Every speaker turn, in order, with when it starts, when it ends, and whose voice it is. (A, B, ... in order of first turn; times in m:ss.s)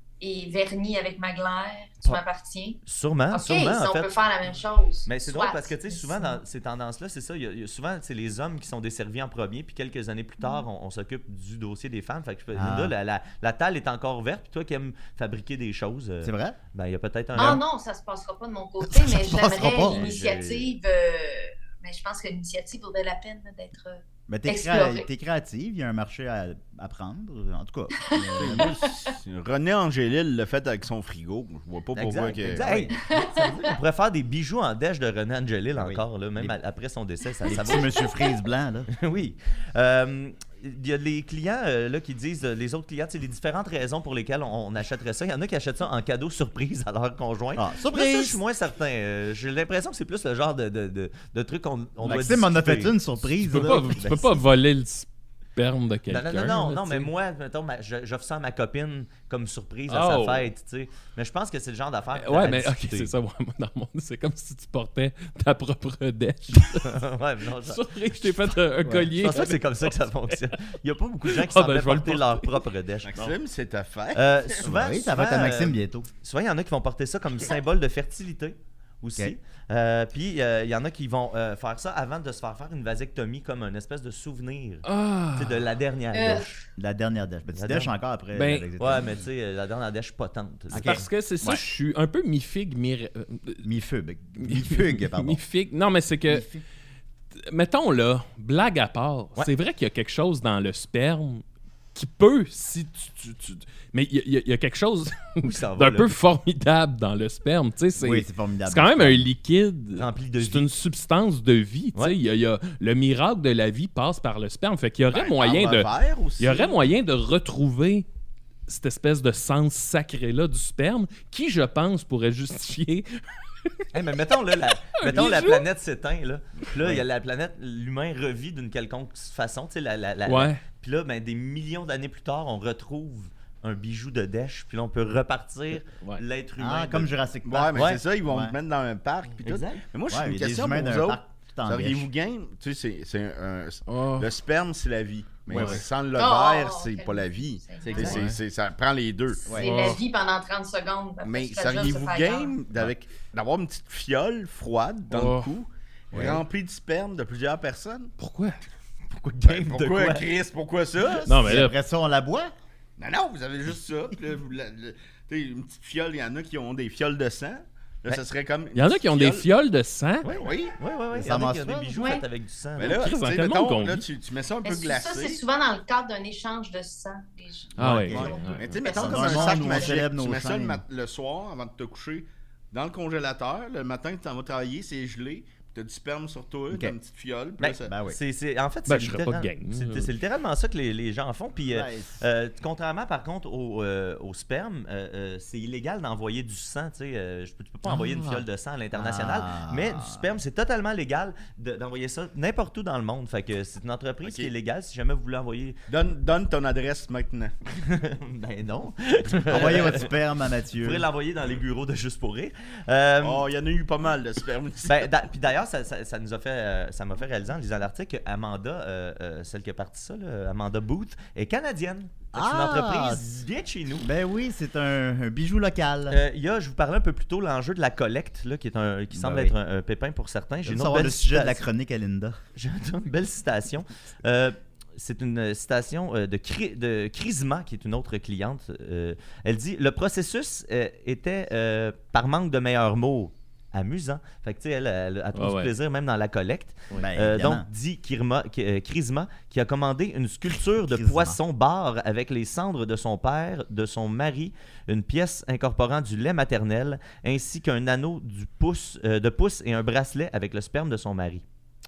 0:00.2-0:02.8 A
0:02.9-0:04.1 B
0:03.3-0:06.4 A
0:05.1-0:17.6 B
0:12.6-0:12.9 C
0:16.2-0:16.6 C
0:17.4-0:25.1 A
0:18.9-0:20.0 C
0:19.6-0:20.7 B
0:24.3-0:28.7 C
0:28.1-0:28.8 A
0:28.2-0:32.7 D
0:32.0-0:38.1 B
0:32.5-0:33.0 C
0:32.9-0:33.6 A
0:35.8-0:36.6 C
0:37.5-0:38.9 C
0:37.5-0:38.1 A
0:38.9-0:53.0 B
0:47.6-0:48.4 C
0:52.0-0:54.1 C
0:53.5-0:57.1 E
0:54.0-0:54.3 B
0:56.1-1:03.1 B
0:59.9-1:00.5 E
1:02.2-1:07.0 E
1:06.8-1:13.2 B
1:07.6-1:10.7 E
1:11.2-1:12.5 E
1:13.0-1:14.7 D
1:14.2-1:26.6 B
1:14.6-1:16.1 C
1:24.8-1:25.6 E
1:26.1-1:26.6 A
1:26.8-1:29.2 C
1:27.5-1:27.9 B
1:28.3-1:28.7 E
1:28.8-1:31.1 B
1:30.7-1:31.7 C
1:30.7-1:33.6 E
1:33.6-1:35.4 C
1:34.4-1:36.4 E
1:36.3-1:36.6 C
1:37.4-1:41.4 E
1:42.0-1:58.1 E
1:45.4-1:46.1 B
1:48.0-1:49.3 C
1:50.0-1:50.7 B
1:55.1-1:56.8 D
1:58.7-2:03.1 E
2:03.9-2:17.1 B
2:05.0-2:05.6 E
2:10.3-2:10.6 E
2:16.0-2:16.2 E
2:16.6-2:18.6 C
2:17.4-2:29.5 D
2:17.8-2:18.0 B
2:19.4-2:19.8 B
2:20.1-2:22.1 C
2:23.9-2:24.3 E
2:25.5-2:25.8 E
2:26.2-2:28.2 A
2:28.0-2:28.4 E
2:29.5-2:32.6 A
2:29.5-2:29.8 C
2:29.6-2:30.0 E
2:31.2-2:38.1 D
2:35.1-2:35.5 E
2:36.1-2:36.4 C
2:38.2-2:38.6 E
2:39.1-2:40.3 B
2:39.4-2:41.4 D
2:41.3-2:41.8 E
2:41.4-2:42.5 C
2:43.0-2:49.5 D
2:48.8-2:50.3 E
2:50.2-2:53.0 B
2:50.3-2:50.8 D
2:51.1-2:52.0 C
2:52.0-2:52.2 A
2:52.8-2:55.4 D
2:52.8-2:54.0 E
2:54.6-3:00.0 A
2:57.8-2:58.8 E
2:57.8-3:00.8 C
2:58.6-3:07.9 D
3:06.7-3:07.0 C
3:07.6-3:25.8 B
3:07.8-3:08.2 C
3:08.9-3:10.1 E
3:11.7-3:12.2 C
3:17.9-3:18.4 E
3:18.9-3:20.3 C
3:24.2-3:24.5 D
3:25.9-3:27.5 D
3:27.8-3:30.1 B
3:29.5-3:31.1 C
3:30.8-3:33.5 B
3:33.2-3:35.1 D
3:34.9-3:44.1 B
3:42.3-3:43.2 C
3:44.0-3:46.2 C
3:46.1-3:51.6 B
3:49.1-3:49.5 C
3:50.6-3:52.4 C
3:52.6-4:21.4 B
4:05.4-4:05.7 E
4:07.0-4:07.7 C
4:10.8-4:11.4 C